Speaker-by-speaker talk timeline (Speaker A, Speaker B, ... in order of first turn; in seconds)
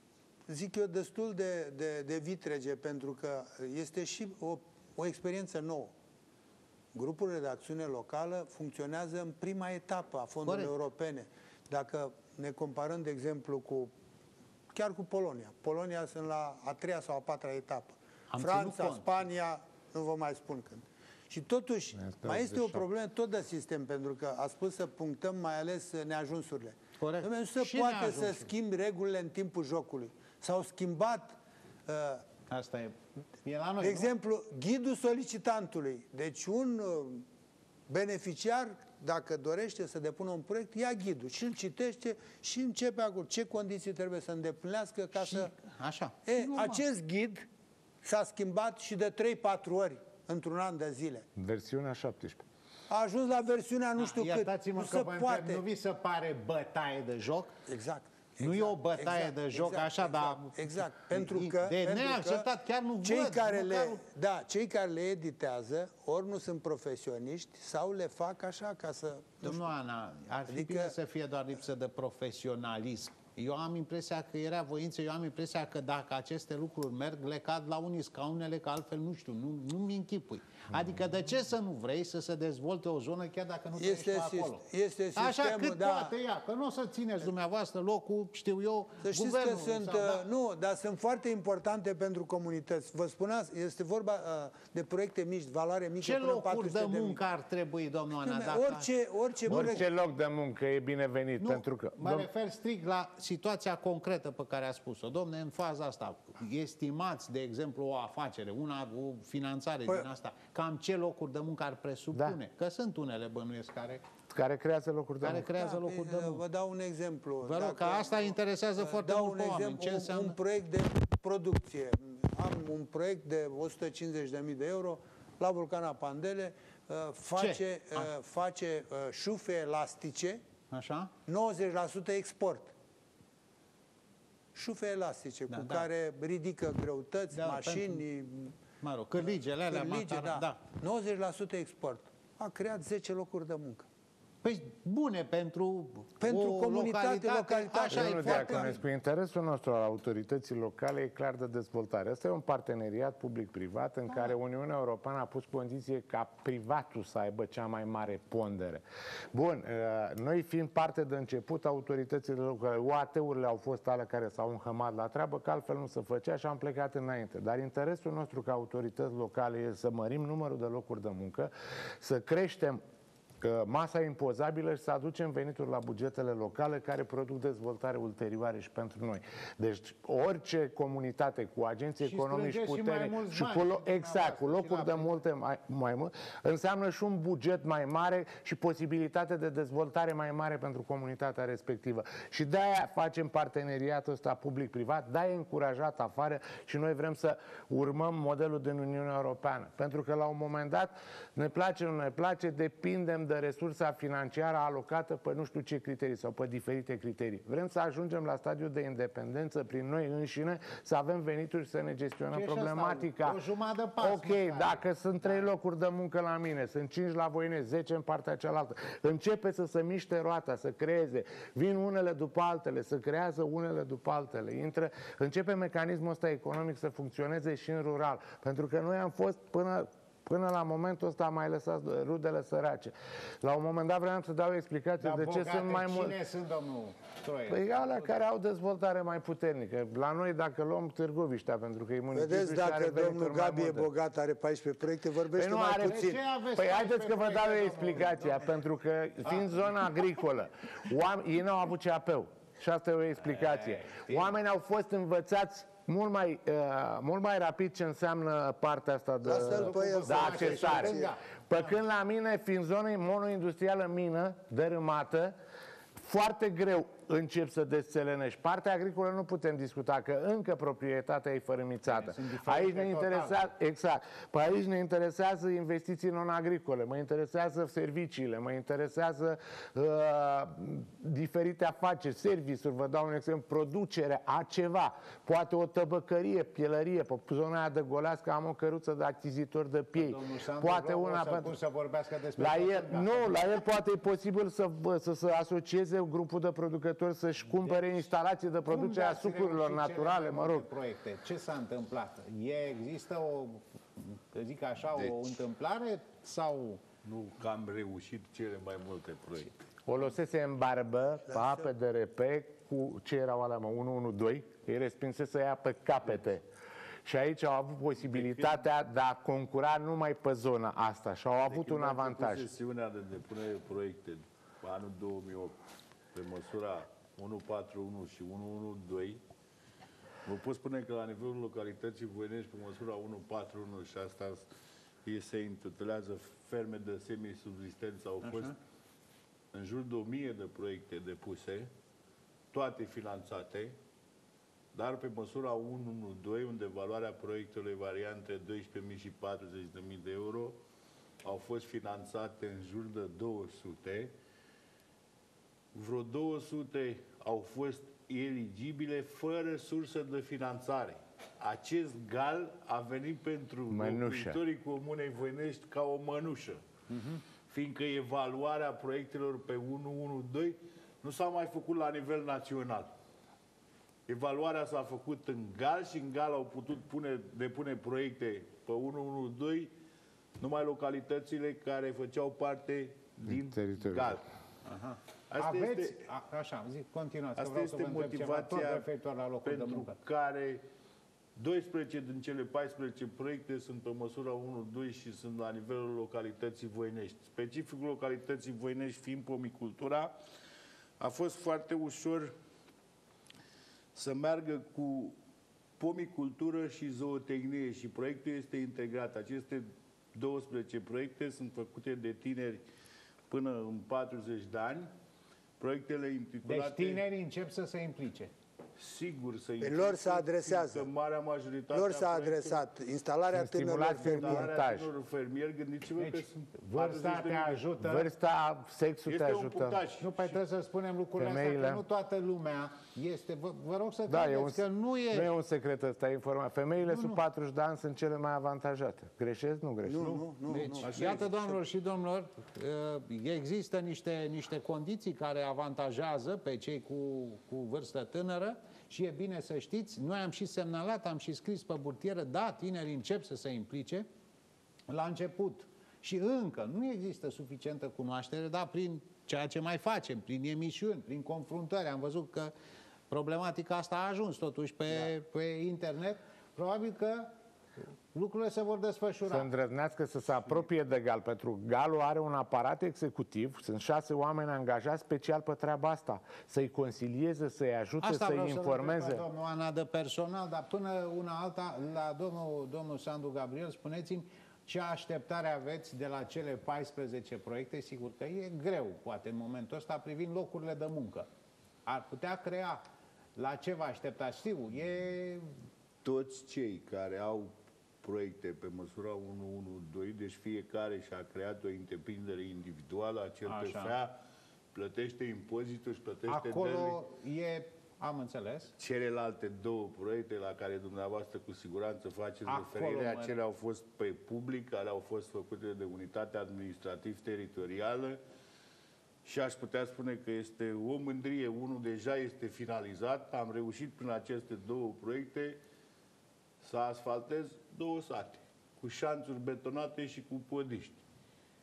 Speaker A: 0.5-5.9, 6.9-13.9, 14.7-32.2, 33.8-37.2, 37.9-45.5, 46.3-47.5, 48.0-51.3, 52.9-55.6, 57.7-62.5, 63.0-69.7, 70.5-71.0, 83.8-86.2, 89.0-97.2, 98.2-99.9, 115.6-130.4, 131.3-132.7, 134.6-138.6, 139.2-143.9, 146.2-148.7, 242.1-246.2, 259.2-261.1, 311.3-311.7, 419.6-420.9, 421.7-424.5, 439.9-441.6
Speaker B: 10.5-10.7, 18.3-19.1, 27.0-28.5, 32.5-34.1, 45.1-46.8, 54.0-57.5, 58.4-64.0, 69.4-84.6, 85.2-90.2, 96.0-98.9, 99.5-99.8, 101.4-114.0, 115.2-116.4, 117.4-120.4, 127.4-128.1, 130.7-131.1, 135.5-135.9, 137.3-138.0, 138.8-140.6, 144.4-148.8, 182.0-185.2, 212.3-215.5, 235.0-238.2, 245.8-248.5, 253.2-254.3, 259.3-261.2, 271.9-273.4, 289.9-293.4, 298.7-306.8, 338.2-338.6, 366.9-367.2, 384.6-390.0, 416.4-418.3, 426.0-428.1, 430.0-435.3, 436.9-437.2, 440.5-454.1, 454.9-462.5, 463.1-467.3, 468.1-469.5, 478.0-491.3, 491.9-492.8, 493.4-495.5, 503.5-504.0, 506.3-508.7, 512.5-513.3
Speaker C: 22.0-22.8, 51.4-52.4, 99.5-102.3, 112.1-112.4, 114.3-115.5, 147.9-172.8, 173.4-213.4, 214.0-236.2, 237.5-243.9, 245.3-265.4, 266.0-291.6, 292.4-300.7, 309.9-316.4, 317.1-322.5, 363.7-364.4, 383.3-384.2, 423.3-424.9, 427.8-429.8, 431.2-431.8, 434.1-440.2, 469.3-479.2
Speaker D: 307.0-309.6, 318.0-318.6, 321.5-325.6, 326.1-329.2, 330.2-334.5, 335.1-338.6, 339.5-341.7, 342.5-343.8, 344.7-350.6, 351.2-354.1, 355.7-366.6, 367.5-372.9, 374.1-379.7, 380.4-384.2, 385.3-386.1, 387.4-388.9, 389.4-390.6, 391.4-400.1, 401.0-402.3, 403.9-405.2, 405.8-412.6, 413.3-414.9, 415.6-417.1, 418.8-422.7, 423.9-427.7, 429.1-430.4, 496.0-504.2, 504.7-507.0, 508.8-518.2, 519.2-525.6, 526.6-531.0